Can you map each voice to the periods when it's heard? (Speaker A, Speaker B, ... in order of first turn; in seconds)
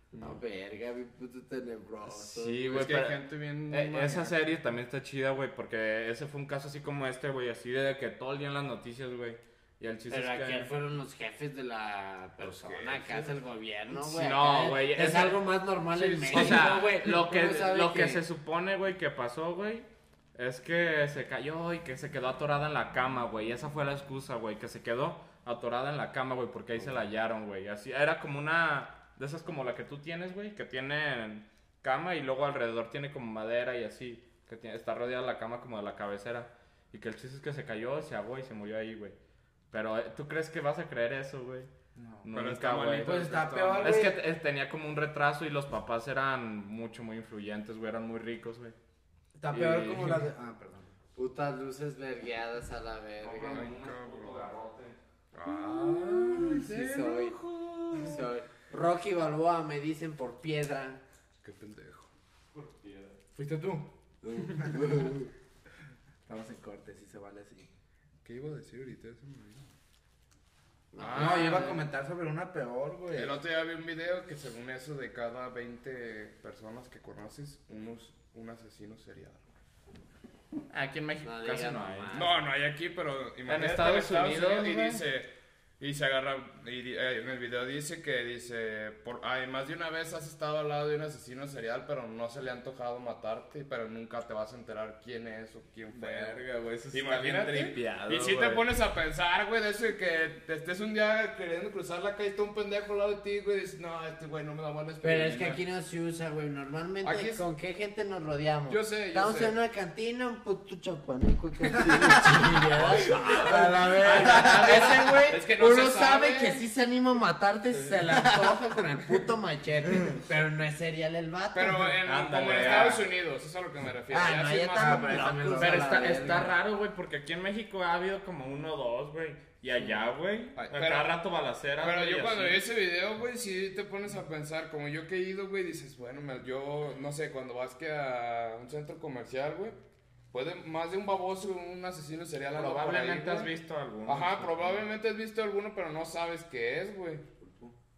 Speaker A: 0.2-2.9, 10.1-18.2, 51.1-53.7, 56.4-57.4, 57.9-61.0, 70.9-71.8, 81.2-82.4, 105.0-122.0, 124.1-126.5
Speaker B: 2.1-10.7, 13.9-15.4, 16.3-39.2, 39.7-41.7, 42.2-48.8, 49.5-50.3, 53.2-55.0, 55.8-58.2, 62.5-63.2, 80.7-82.2, 83.5-85.0, 95.9-98.6, 122.0-123.1, 125.5-132.6, 142.6-144.7
Speaker C: 2.7-4.4, 12.4-13.3, 15.9-16.8, 42.3-44.0, 53.5-54.5, 55.3-57.1, 57.9-58.1, 61.4-62.1, 68.2-69.7, 71.0-71.8, 73.1-79.4, 82.1-96.4, 96.9-105.6, 107.0-107.5, 108.7-109.6, 113.1-113.6, 114.1-116.6, 121.5-125.4, 130.6-131.2, 131.8-139.8, 140.3-143.5, 144.1-147.3
Speaker D: 42.0-42.3, 43.0-44.2, 49.4-50.9, 63.3-65.3, 66.3-67.7, 71.2-73.4, 111.9-112.4, 113.5-115.1, 124.8-126.5